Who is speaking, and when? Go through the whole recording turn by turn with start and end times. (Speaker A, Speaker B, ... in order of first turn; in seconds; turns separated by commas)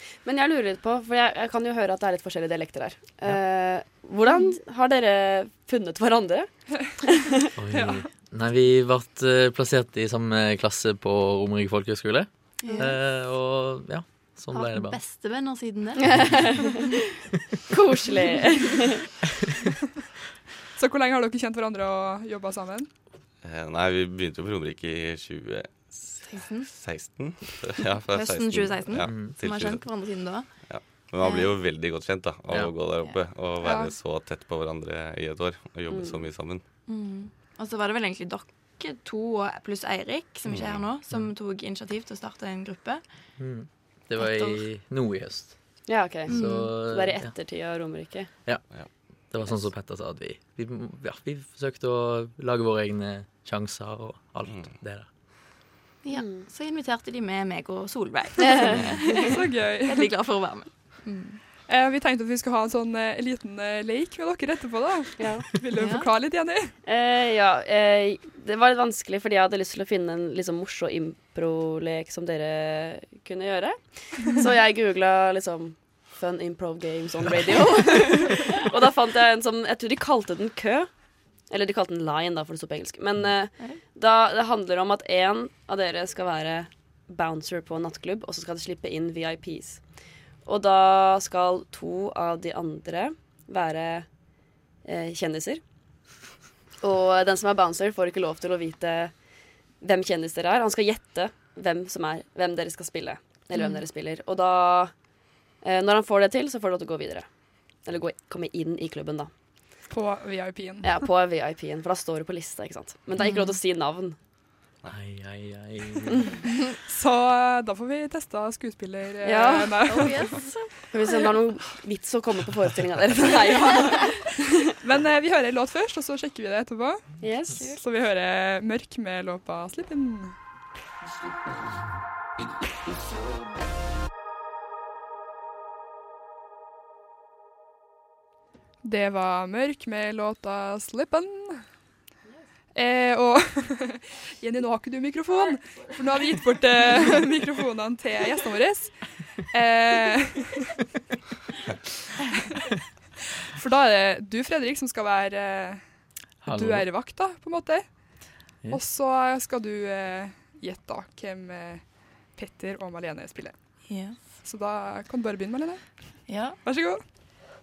Speaker A: 0.2-7.5, Speaker B: 7.5-15.0, Speaker C: 7.7-8.0, Speaker D: 12.6-12.9, Speaker D: 14.5-16.9, Speaker A: 16.1-16.8, Speaker A: 17.7-19.0, Speaker C: 20.8-22.9, Speaker E: 23.4-29.8, Speaker D: 26.3-26.7, Speaker D: 28.1-30.4, Speaker B: 29.1-29.3, Speaker E: 30.7-36.6, Speaker D: 31.2-31.5, Speaker C: 33.6-33.9, Speaker A: 35.9-36.3, Speaker D: 36.9-43.0, Speaker E: 40.5-40.8, Speaker B: 43.4-45.5, Speaker D: 44.2-44.6, Speaker A: 45.9-48.3, Speaker B: 46.3-47.3, Speaker D: 46.3-46.7, Speaker B: 49.3-55.1, Speaker D: 56.0-61.4, Speaker A: 56.1-56.5, Speaker A: 58.4-59.3, Speaker C: 59.1-60.1, Speaker C: 61.7-66.7, Speaker A: 65.2-65.5, Speaker D: 65.7-66.1, Speaker A: 66.8-80.9, Speaker A: 81.5-89.8, Speaker A: 90.5-94.0, Speaker A: 94.8-95.6, Speaker A: 96.8-99.1, Speaker A: 99.8-104.9, Speaker D: 103.5-103.8, Speaker A: 105.6-107.2, Speaker A: 107.8-109.3, Speaker C: 109.9-110.9, Speaker A: 110.8-114.2, Speaker D: 113.2-113.6, Speaker B: 114.9-116.3, Speaker C: 116.6-120.3, Speaker A: 119.2-119.9, Speaker D: 119.8-121.3, Speaker A: 120.9-124.7, Speaker C: 124.8-127.1, Speaker A: 127.2-127.6, Speaker C: 127.7-130.3, Speaker C: 138.8-141.6, Speaker C: 142.7-150.7, Speaker C: 153.5-155.8, Speaker B: 156.4-156.9, Speaker C: 156.4-157.8, Speaker C: 158.7-161.8, Speaker C: 162.3-163.5, Speaker D: 163.9-164.2, Speaker C: 164.4-165.8, Speaker D: 166.3-166.6, Speaker C: 166.6-167.0